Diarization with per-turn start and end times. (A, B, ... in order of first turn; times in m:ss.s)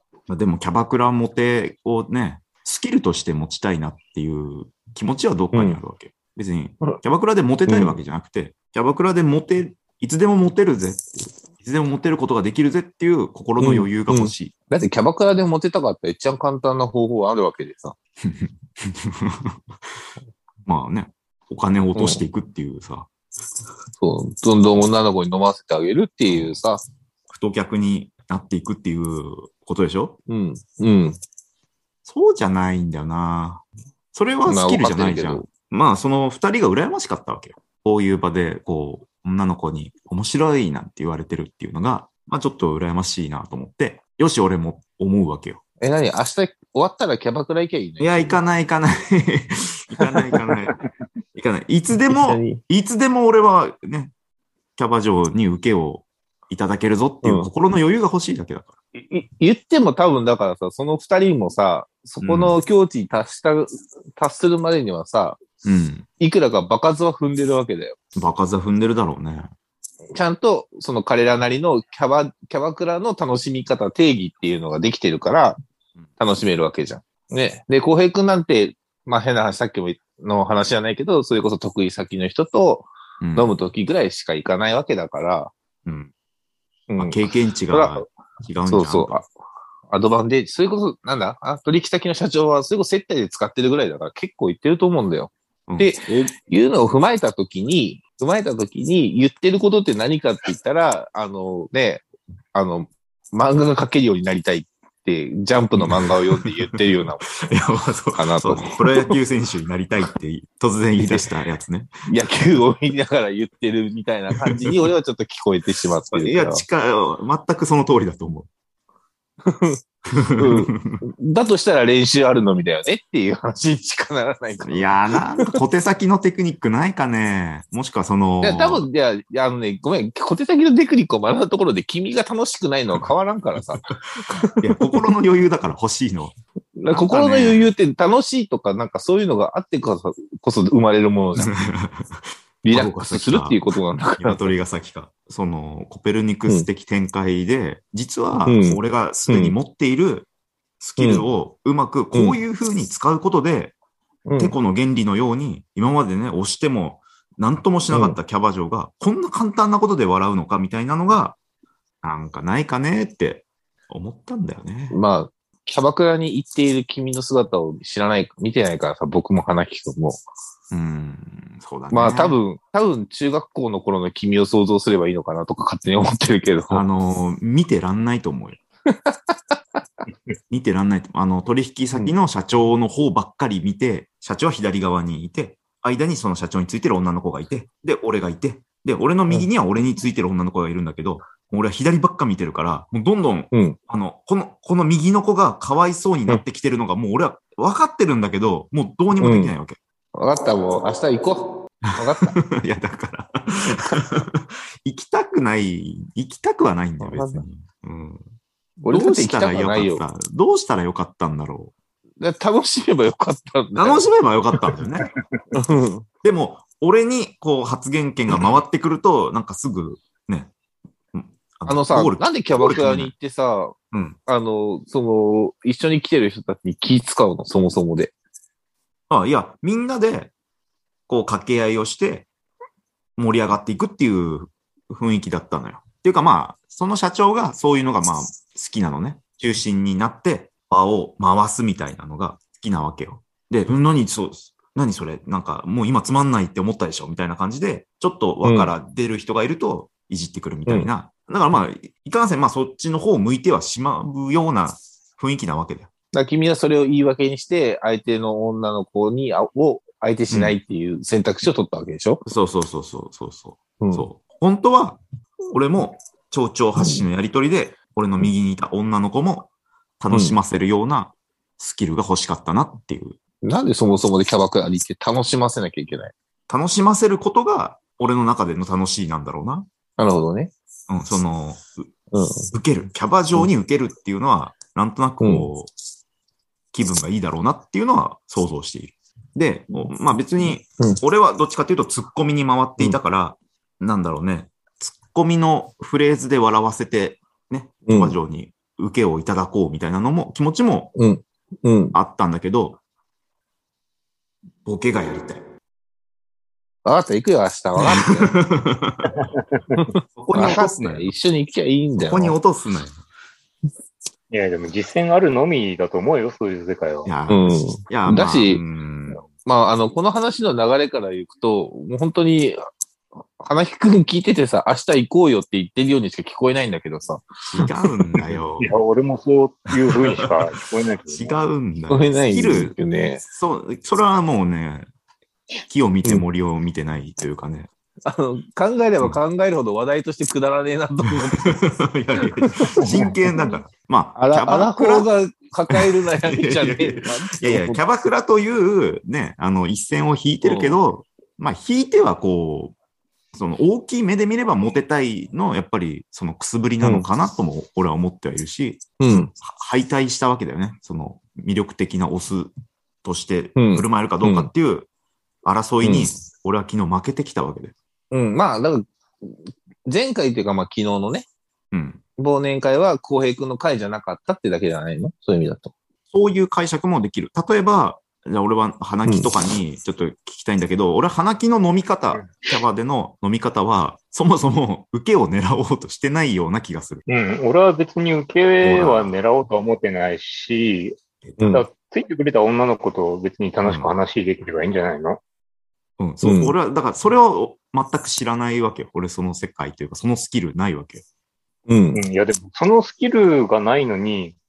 0:00.3-0:14.5 A
0:05.5-0:05.8 B
0:07.7-0:08.0 B
0:13.6-0:18.0 B
0:18.2-0:19.6 A
0:20.7-0:23.1 A
0:22.0-0:22.2 B
0:24.0-0:26.8 B
0:26.3-0:26.6 A
0:27.3-0:30.2 A
0:30.3-0:31.2 B
0:32.1-0:45.6 A
0:34.5-0:35.5 B
0:45.8-0:48.4 B
0:48.0-0:50.7 A
0:51.4-0:54.1 A
0:52.1-0:52.6 B
0:54.8-0:58.7 A
0:57.2-0:57.5 B
0:59.0-1:05.4 B
1:02.2-1:02.6 A
1:05.6-1:06.1 A
1:06.2-1:08.0 B
1:08.2-1:09.5 A
1:10.2-1:15.6 B
1:16.2-1:25.5 B
1:23.2-1:23.6 A
1:25.8-1:26.1 A
1:26.9-1:28.0 B
1:27.0-1:29.2 A
1:28.7-1:29.3 B
1:29.9-1:47.5 B
1:35.7-1:36.3 A
1:45.8-1:46.8 A
1:47.4-1:51.9 A
1:48.2-1:49.1 B
1:52.1-1:56.6 B
1:54.5-1:54.8 A
1:56.1-1:58.5 A
1:59.5-1:59.8 B
2:00.4-2:05.0 B
2:00.5-2:01.0 A
2:04.6-2:08.8 A
2:08.4-2:14.9 B
2:14.6-2:16.4 A
2:16.8-2:21.6 B
2:16.9-2:17.7 A
2:21.4-2:23.6 A
2:22.6-2:24.5 B
2:24.2-2:30.3 A
2:28.5-2:29.6 B
2:30.8-2:33.8 A
2:31.0-2:31.3 B
2:32.1-2:32.4 B
2:34.3-2:34.6 B
2:34.4-2:41.4 A
2:37.9-2:38.2 B
2:42.0-2:45.0 A
2:44.9-2:50.2 B
2:50.7-2:52.4 A
2:51.9-2:56.8 B
2:56.7-2:58.6 A
2:58.9-2:59.6 B
3:00.5-3:19.8 A
3:13.5-3:13.8 B
3:19.2-3:19.5 B
3:20.2-3:22.4 B
3:21.9-3:28.2 A
3:23.7-3:24.1 B
3:27.0-3:27.4 B
3:28.8-3:30.0 B
3:28.9-3:31.7 A
3:32.2-3:34.1 B
3:33.8-3:35.1 A
3:35.5-3:36.0 B
3:36.2-3:40.5 A
3:41.1-3:43.1 A
3:41.7-3:43.8 B
3:43.9-3:44.2 A
3:44.3-3:48.1 B
3:49.1-3:50.3 A
3:51.1-3:52.3 A
3:53.2-4:15.9 A
4:08.4-4:08.7 B
4:16.1-4:22.2 B
4:20.3-4:20.6 A
4:22.2-4:25.0 A
4:25.5-4:29.5 A
4:26.8-4:27.0 B
4:30.0-4:33.2 A
4:30.1-4:30.4 B
4:33.4-4:36.1 B
4:36.5-4:39.7 A
4:40.0-4:40.5 B
4:40.9-4:41.9 A
4:42.1-4:42.5 B
4:42.5-4:45.7 A
4:45.2-4:45.5 B
4:46.7-5:00.9 A
4:57.9-4:58.2 B
5:01.0-5:02.0 B
5:01.9-5:02.8 A
5:04.6-5:05.4 A
5:06.8-5:08.4 B
5:07.8-5:09.1 A
5:09.1-5:09.8 C
5:09.8-5:12.4 B
5:10.2-5:11.1 A
5:12.0-5:13.0 A
5:14.3-5:17.1 C
5:17.1-5:19.3 A
5:17.3-5:18.6 B
5:19.4-5:22.6 B
5:23.4-5:27.7 B
5:27.5-5:28.7 A
5:28.6-5:31.4 C
5:31.1-5:32.8 A
5:31.9-5:33.2 B
5:33.3-5:34.9 A
5:35.7-5:37.7 A
5:38.1-5:41.6 B
5:41.4-5:45.1 A
5:42.2-5:42.9 B
5:44.2-5:47.8 B
5:45.7-5:52.8 A
5:50.4-5:50.8 B
5:53.3-6:02.5 A
5:56.8-5:57.1 B
5:59.0-5:59.3 B
6:03.0-6:04.9 A
6:03.6-6:04.5 B
6:05.4-6:07.7 A
6:05.8-6:06.1 B
6:08.1-6:11.3 B
6:11.7-6:12.0 A
6:12.2-6:15.7 B
6:16.1-6:27.0 A
6:19.1-6:19.3 B
6:22.2-6:22.6 C
6:27.1-6:31.0 C
6:28.6-6:29.2 A
6:31.2-6:31.6 A
6:31.4-6:31.7 B
6:31.5-6:35.2 C
6:33.6-6:33.9 A
6:36.0-6:41.0 A
6:36.2-6:36.6 B
6:41.7-6:42.0 B
6:41.9-6:44.4 C